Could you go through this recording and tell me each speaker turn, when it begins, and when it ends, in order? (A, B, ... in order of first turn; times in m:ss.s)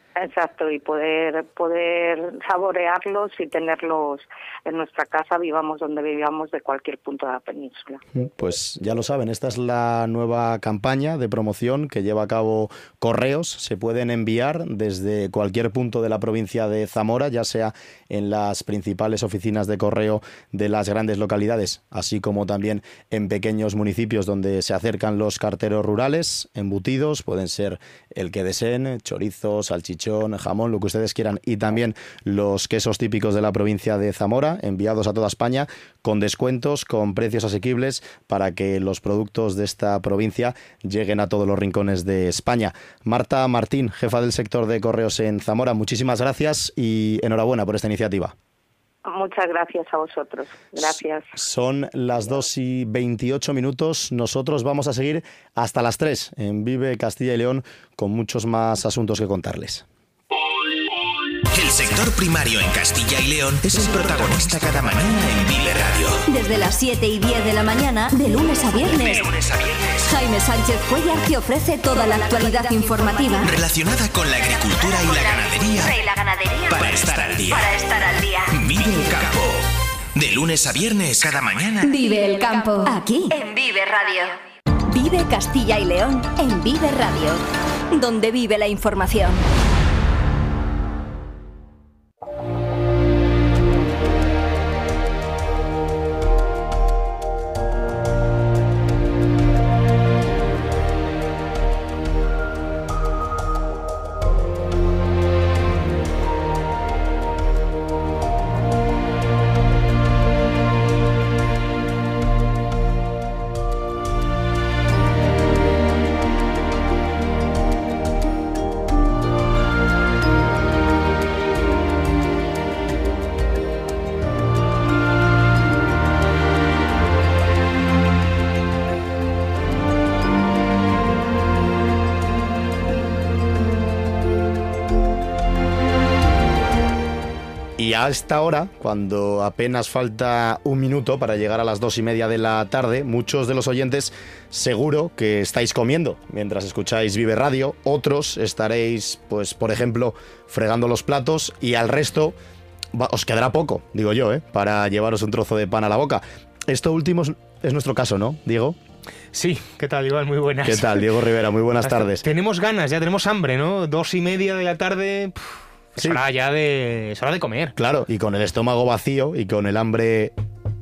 0:00.2-0:08.0 A
0:08.1-0:48.3 B
0:49.0-0:51.3 A
0:50.8-0:59.8 B
1:01.5-1:06.2 C
1:06.3-1:09.2 D
1:09.1-1:10.0 C
1:10.0-1:13.5 D
1:13.4-1:16.0 C
1:15.9-1:16.7 D
1:16.7-1:17.8 C
1:17.7-1:18.5 D
1:18.5-1:19.6 C
1:20.2-1:21.9 C
1:21.8-1:24.3 D
1:24.9-1:29.4 D
2:17.8-2:32.4 B
2:32.9-2:38.8 B
2:39.3-2:41.1 E
2:40.6-2:42.2 B
2:41.8-2:47.7 E
2:47.8-2:50.3 B